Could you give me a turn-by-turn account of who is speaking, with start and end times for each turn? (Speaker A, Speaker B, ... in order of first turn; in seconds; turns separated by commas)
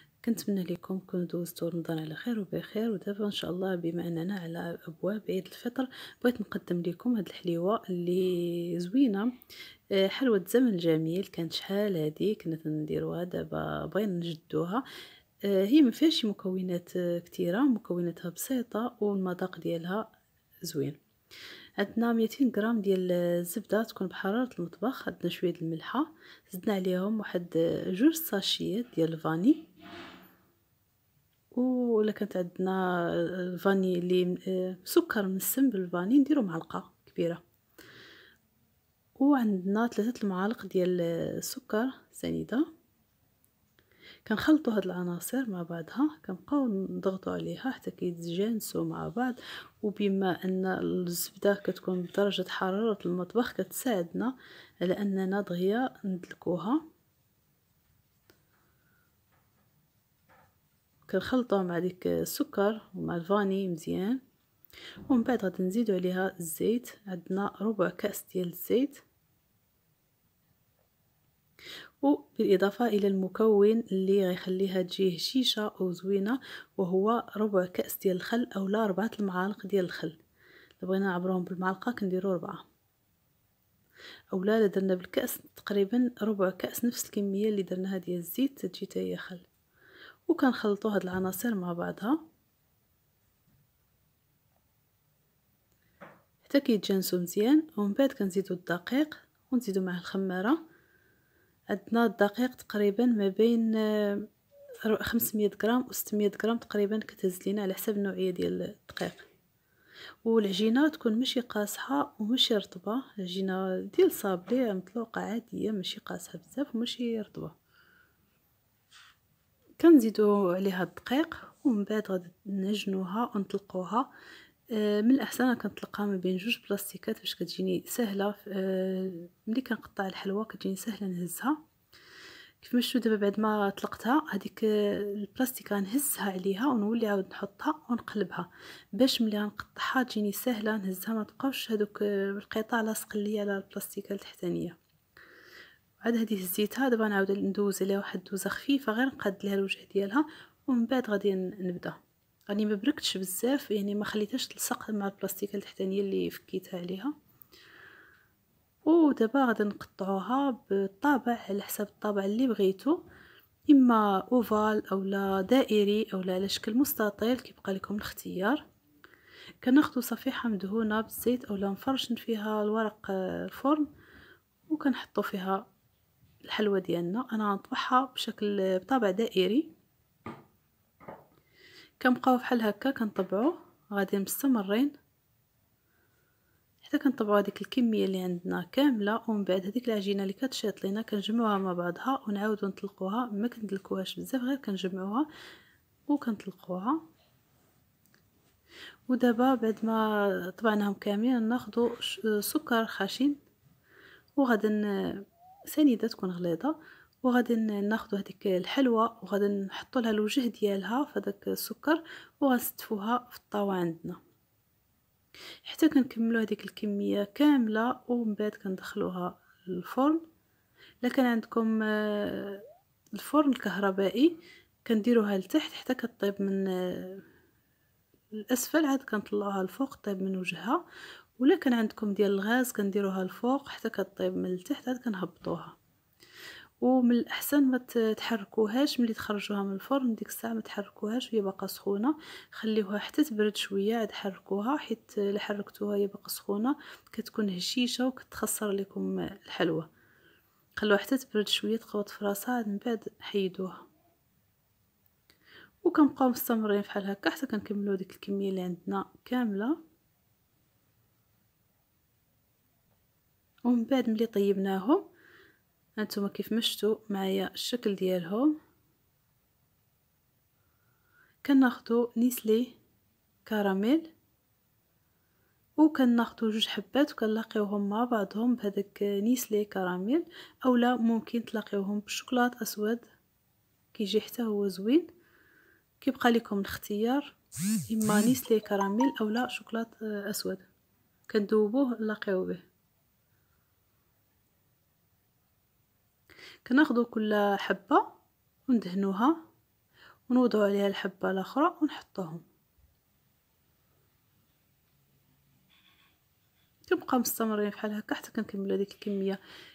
Speaker A: 0.2-9.3, Speaker A: 9.9-14.8, Speaker A: 15.4-20.1, Speaker A: 20.6-21.0, Speaker A: 21.8-29.7, Speaker A: 31.6-37.4, Speaker A: 39.2-42.7, Speaker A: 44.2-56.8, Speaker A: 61.1-64.2, Speaker A: 65.1-69.0, Speaker A: 72.0-80.2, Speaker A: 80.8-82.6, Speaker A: 84.3-89.5, Speaker A: 90.3-92.2, Speaker A: 96.4-100.6, Speaker A: 101.7-104.3, Speaker A: 104.9-109.3, Speaker A: 110.2-117.6, Speaker A: 119.8-124.1, Speaker A: 124.7-131.6, Speaker A: 132.6-144.8, Speaker A: 146.0-152.0, Speaker A: 152.5-157.1, Speaker A: 158.9-163.0, Speaker A: 163.7-168.6, Speaker A: 169.6-173.9, Speaker A: 174.7-175.7, Speaker A: 176.5-179.7, Speaker A: 182.0-184.9, Speaker A: 186.8-195.3, Speaker A: 196.1-197.0, Speaker A: 199.1-203.4, Speaker A: 204.4-214.2, Speaker A: 215.6-220.2, Speaker A: 221.0-222.6, Speaker A: 223.2-227.2, Speaker A: 228.3-230.8, Speaker A: 231.4-235.8, Speaker A: 236.8-249.9, Speaker A: 250.8-253.8, Speaker A: 255.8-259.8, Speaker A: 263.7-265.1, Speaker A: 266.0-268.6, Speaker A: 271.4-272.7, Speaker A: 273.5-274.1, Speaker A: 275.8-283.1, Speaker A: 283.9-285.1, Speaker A: 286.0-287.4, Speaker A: 287.9-290.7, Speaker A: 291.3-292.6, Speaker A: 296.6-298.1, Speaker A: 298.7-299.4, Speaker A: 300.3-302.4, Speaker A: 306.9-309.4